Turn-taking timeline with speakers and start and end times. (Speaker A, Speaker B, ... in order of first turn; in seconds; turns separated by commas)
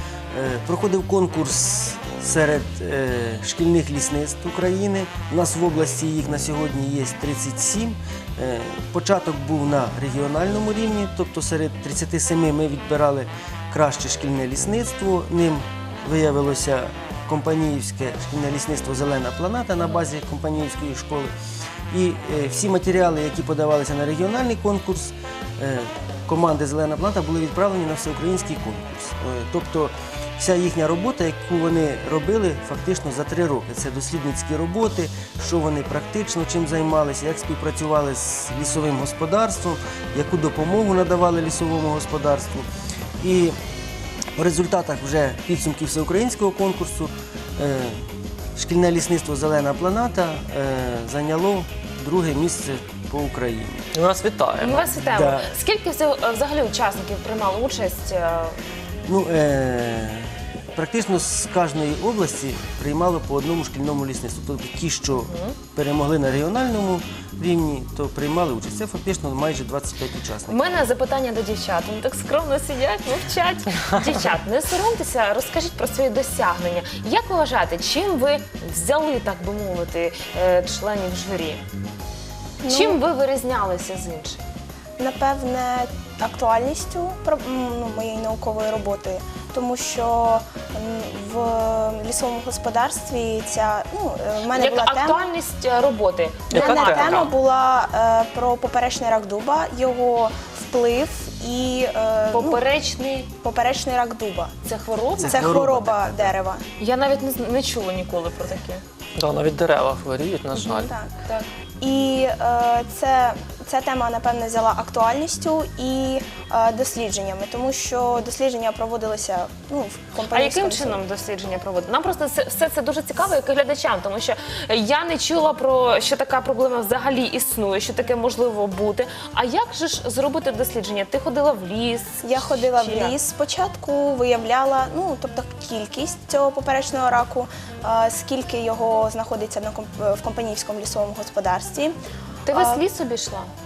Speaker A: 0.3-21.3, Speaker A: 21.9-42.7, Speaker A: 43.2-43.5, Speaker A: 44.4-48.0, Speaker A: 48.6-53.9, Speaker B: 53.9-54.9, Speaker C: 54.6-58.6, Speaker A: 54.8-55.5, Speaker A: 59.1-70.9, Speaker C: 65.2-65.6, Speaker C: 70.5-81.6, Speaker D: 82.6-83.0, Speaker C: 82.7-84.4, Speaker D: 85.0-95.2, Speaker C: 94.5-97.3, Speaker B: 96.5-97.3, Speaker D: 96.5-102.6, Speaker C: 102.3-103.3, Speaker D: 103.4-104.5, Speaker C: 104.6-105.4, Speaker A: 105.2-106.4, Speaker D: 105.2-106.6, Speaker C: 106.8-108.8, Speaker B: 109.2-110.9, Speaker C: 110.6-111.5, Speaker D: 110.6-111.2, Speaker D: 111.8-121.0, Speaker C: 120.3-133.2, Speaker D: 132.2-142.0, Speaker C: 142.4-143.5, Speaker D: 142.5-142.8